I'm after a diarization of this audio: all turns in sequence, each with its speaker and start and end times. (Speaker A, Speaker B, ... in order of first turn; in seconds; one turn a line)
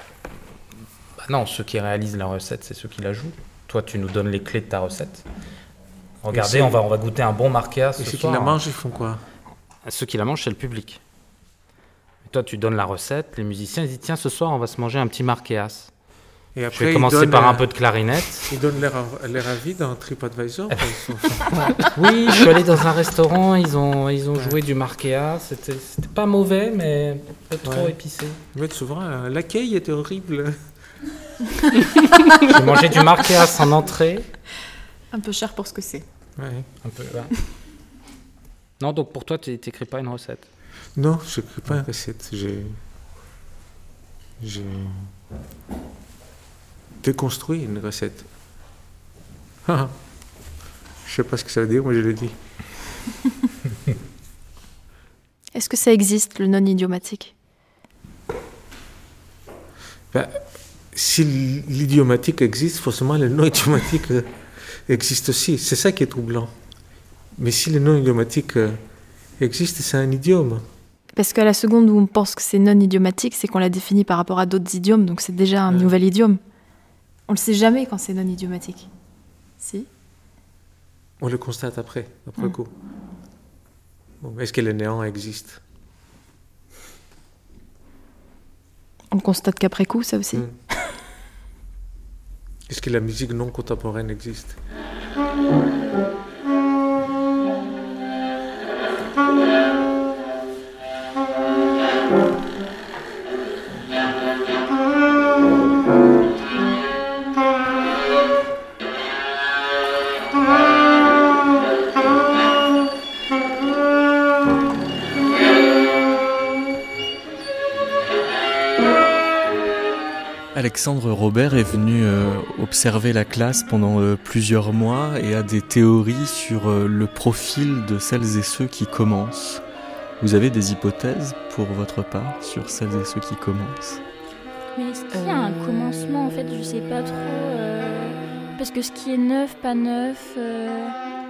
Speaker A: 1.2-5.2
Speaker A: 6.2-8.6
Speaker B: 6.3-6.8
Speaker B: 8.0-9.2
Speaker A: 9.8-11.0
Speaker A: 12.2-15.9
Speaker B: 16.5-17.6
Speaker A: 16.7-18.5
Speaker B: 18.5-21.8
Speaker A: 21.5-28.4
Speaker B: 27.6-27.9
Speaker B: 28.5-30.6
Speaker A: 32.4-34.3
Speaker C: 35.1-36.0
Speaker B: 36.4-36.7
Speaker A: 36.8-37.3
Speaker A: 38.8-40.5
Speaker B: 41.0-42.8
Speaker B: 44.4-45.1
Speaker B: 47.0-48.3
Speaker B: 49.6-49.9
Speaker B: 51.0-52.3
Speaker C: 55.5-57.3
Speaker B: 60.1-64.3
Speaker B: 64.8-66.5
Speaker B: 67.3-68.8
Speaker B: 69.4-70.6
Speaker C: 71.2-76.4
Speaker B: 75.7-75.9
Speaker C: 77.3-78.9
Speaker C: 79.6-79.9
Speaker B: 81.2-82.7
Speaker B: 84.2-85.6
Speaker C: 89.1-90.4
Speaker B: 92.7-94.6
Speaker D: 120.5-129.6
Speaker D: 130.2-134.0
Speaker E: 134.7-140.9